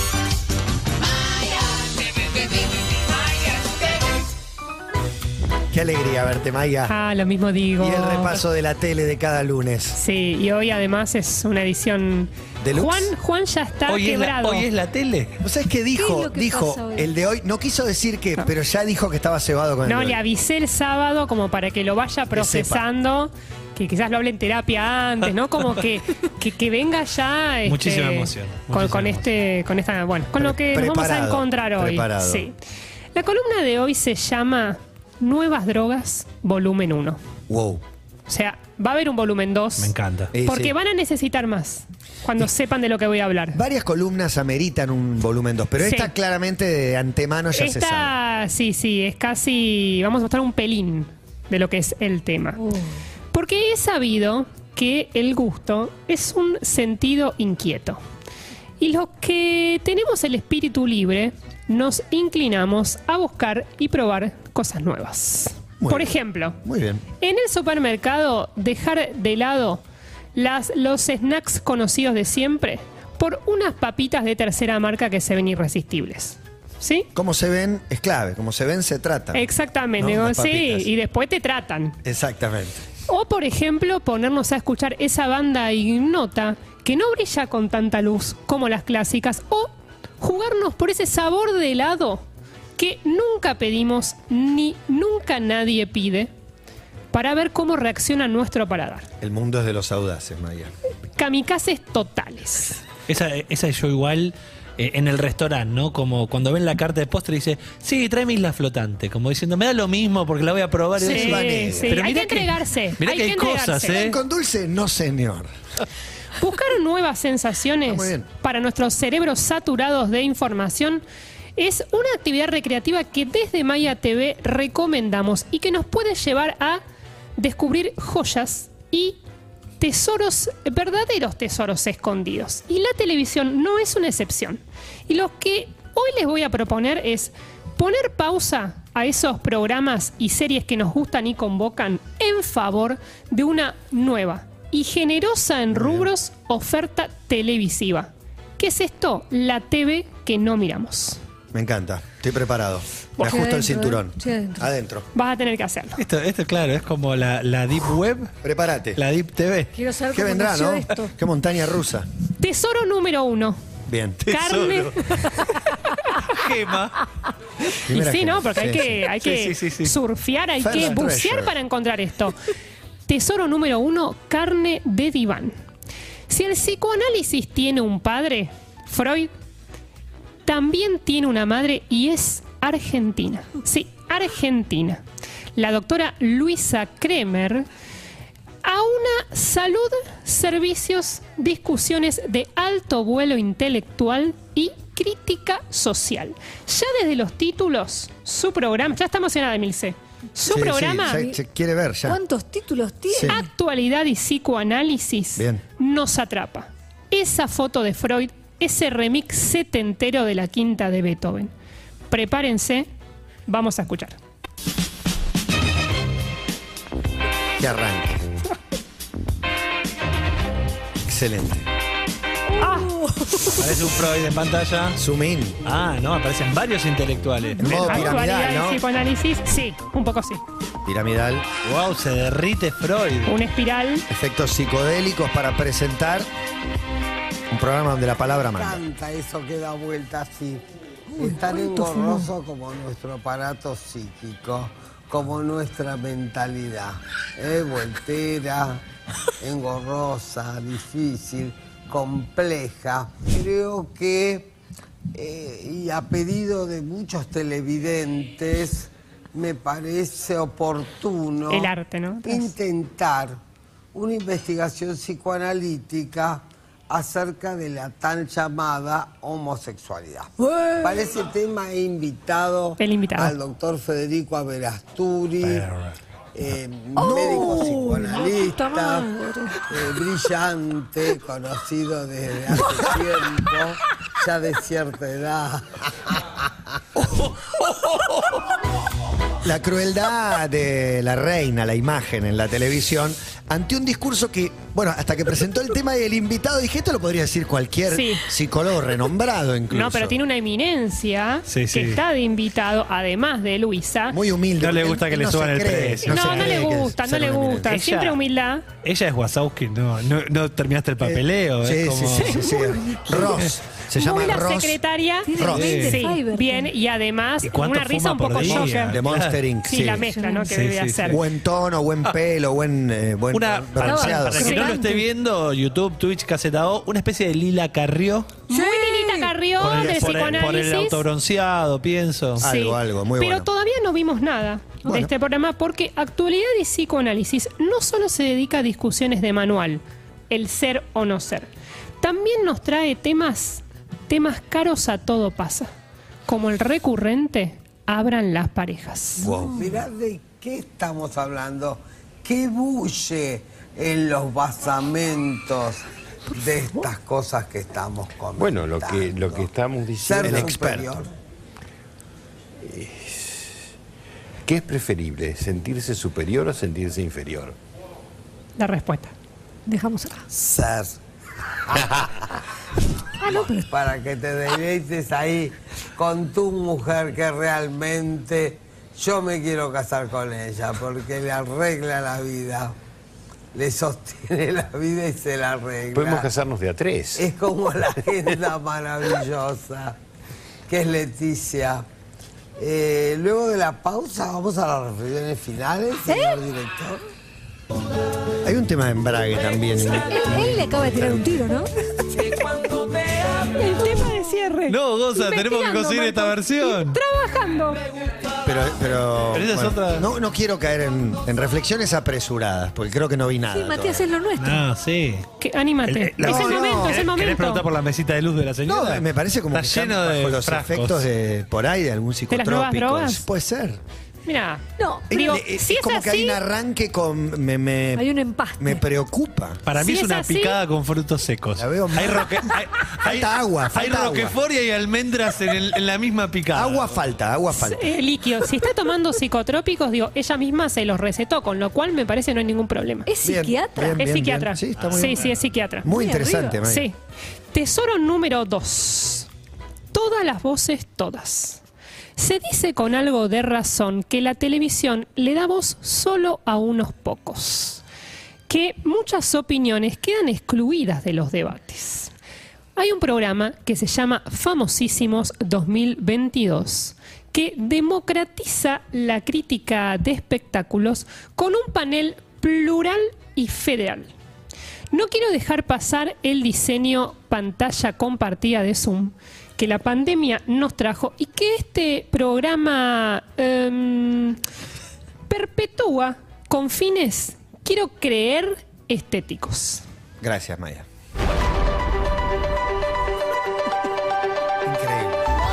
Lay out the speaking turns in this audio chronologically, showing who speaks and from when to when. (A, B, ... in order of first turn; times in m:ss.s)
0:05.7-0:06.9 A
0:06.9-0:08.4 B
0:07.8-0:10.0 A
0:10.0-0:14.7 B
0:12.6-0:13.1 A
0:13.9-0:15.4 C
0:15.4-0:20.2 A
0:15.9-0:17.1 D
0:19.8-0:32.6 B
0:22.3-0:22.9 A
0:27.6-0:29.3 C
0:30.4-0:32.5 A
0:33.1-0:37.2 B
0:37.5-0:37.8 A
0:38.3-0:43.6 B
0:39.8-0:40.3 C
0:40.3-0:40.8 A
0:43.5-0:48.2 A
0:45.8-0:46.1 B
0:47.5-0:52.6 B
0:53.3-0:58.0 B
0:58.8-1:06.6 B
1:05.8-1:07.0 A
1:07.2-1:09.8 B
1:10.4-1:17.1 B
1:17.2-1:19.5 A
1:19.3-1:22.0 B
1:20.0-1:20.9 A
1:22.0-1:22.8 A
1:23.1-1:32.3 B
1:32.8-1:36.3 B
1:37.1-1:39.1 B
1:39.2-1:40.7 A
1:41.2-1:42.8 B
1:43.1-1:54.2 C
1:51.0-1:52.0 A
1:51.0-1:54.0 B
1:53.9-1:55.5 A
1:56.4-2:01.0 B
1:57.9-1:58.3 A
2:01.6-2:06.8 B
2:07.4-2:09.2 B
2:09.8-2:31.2 B
2:25.7-2:26.1 A
2:31.5-2:35.1 A
2:33.2-2:33.5 B
2:33.2-2:34.6 D
2:35.2-2:36.0 B
2:36.0-2:38.3 C
2:38.4-2:39.0 A
2:39.0-2:39.8 C
2:39.8-2:41.1 D
2:40.1-2:42.1 A
2:42.4-2:43.6 B
2:43.9-2:44.2 A
2:44.2-2:47.0 C
2:44.3-2:44.9 B
2:47.8-2:48.9 A
2:47.9-2:52.4 B
2:49.2-2:49.9 C
2:50.6-2:51.6 A
2:53.1-2:55.5 B
2:56.3-2:59.3 B
3:00.5-3:05.0 B
3:05.6-3:07.7 B
3:08.6-3:21.3 B
3:20.5-3:22.2 A
3:22.1-3:23.4 D
3:23.1-3:23.4 A
3:23.2-3:31.5 B
3:32.1-3:32.9 B
3:33.5-3:34.2 B
3:37.6-3:38.2 A
3:41.1-3:41.7 A
3:42.6-3:43.6 B
3:42.6-3:43.4 D
3:43.6-3:45.0 C
3:45.0-3:45.6 A
3:45.7-3:48.2 C
3:47.6-3:48.8 A
3:47.7-3:50.4 B
3:50.8-3:51.4 A
3:51.7-3:53.3 C
3:53.3-3:54.0 B
3:54.1-3:56.3 A
3:57.5-3:58.8 A
3:58.2-4:08.8 E
4:01.2-4:02.3 D
4:09.4-4:14.5 E
4:15.1-4:21.7 E
4:21.5-4:22.5 B
4:22.2-4:23.4 E
4:23.9-4:35.7 E
4:30.6-4:30.9 D
4:32.8-4:33.4 B
4:36.4-4:46.4 E
4:37.0-4:39.6 D
4:49.4-5:00.2 A
4:57.9-4:58.2 B
4:59.7-5:04.2 B
5:01.5-5:02.0 C
5:04.1-5:07.8 A
5:04.6-5:06.7 C
5:06.1-5:08.6 B
5:07.7-5:08.2 C
5:08.8-5:12.5 C
5:11.0-5:14.8 A
5:12.6-5:13.1 D
5:13.2-5:13.5 C
5:14.0-5:19.0 B
5:15.2-5:16.7 D
5:15.3-5:15.8 A
5:15.4-5:16.0 C
5:17.4-5:19.5 C
5:18.4-5:20.2 A
5:19.7-5:21.2 B
5:20.1-5:20.6 D
5:20.5-5:21.2 C
5:21.1-5:24.7 A
5:23.3-5:28.4 C
5:23.8-5:25.0 D
5:28.5-5:31.0 B
5:28.5-5:29.3 D
5:29.6-5:32.4 C
5:29.7-5:30.5 A
5:32.4-5:33.5 A
5:32.4-5:41.5 B
5:34.8-5:35.1 A
5:42.0-5:45.7 B
5:46.3-5:49.3 B
5:49.2-6:01.1 E
5:49.3-5:49.6 D
5:58.4-6:00.9 F
6:00.2-6:00.9 A
6:02.6-6:03.5 F
6:04.5-6:07.6 F
6:08.6-6:09.1 B
6:09.7-6:10.3 D
6:10.3-6:11.0 E
6:11.7-6:12.3 E
6:13.2-6:13.6 D
6:13.3-6:22.8 E
6:23.5-6:26.4 E
6:25.9-6:27.3 F
6:27.2-6:30.0 E
6:30.7-6:31.9 E
6:32.6-6:37.0 E
6:36.1-6:36.4 D
6:38.4-6:41.4 A
6:40.0-6:41.7 D
6:43.5-6:47.8 B
6:44.7-6:47.0 C
6:48.4-6:54.1 A
6:49.3-6:50.0 C
6:53.5-6:54.6 D
6:54.4-6:55.3 C
6:55.4-6:57.7 B
6:55.8-7:01.1 C
6:56.2-6:57.0 A
6:58.6-7:03.8 A
7:02.3-7:03.2 B
7:04.3-7:06.4 B
7:04.8-7:05.3 D
7:05.1-7:09.6 A
7:08.0-7:08.8 D
7:09.7-7:16.9 C
7:09.8-7:10.6 B
7:11.6-7:12.4 A
7:13.0-7:14.4 A
7:16.5-7:17.9 A
7:17.5-7:23.1 B
7:23.1-7:24.0 D
7:23.2-7:25.2 A
7:23.8-7:25.9 B
7:24.8-7:25.4 C
7:25.8-7:26.9 A
7:25.9-7:26.6 D
7:26.6-7:27.0 B
7:27.5-7:29.3 B
7:29.9-7:31.6 B
7:32.2-7:37.8 B
7:38.5-7:42.1 B
7:42.8-7:54.1 B
7:54.9-8:04.4 B
8:05.3-8:09.8 B
8:10.2-8:10.8 A
8:14.6-8:15.2 A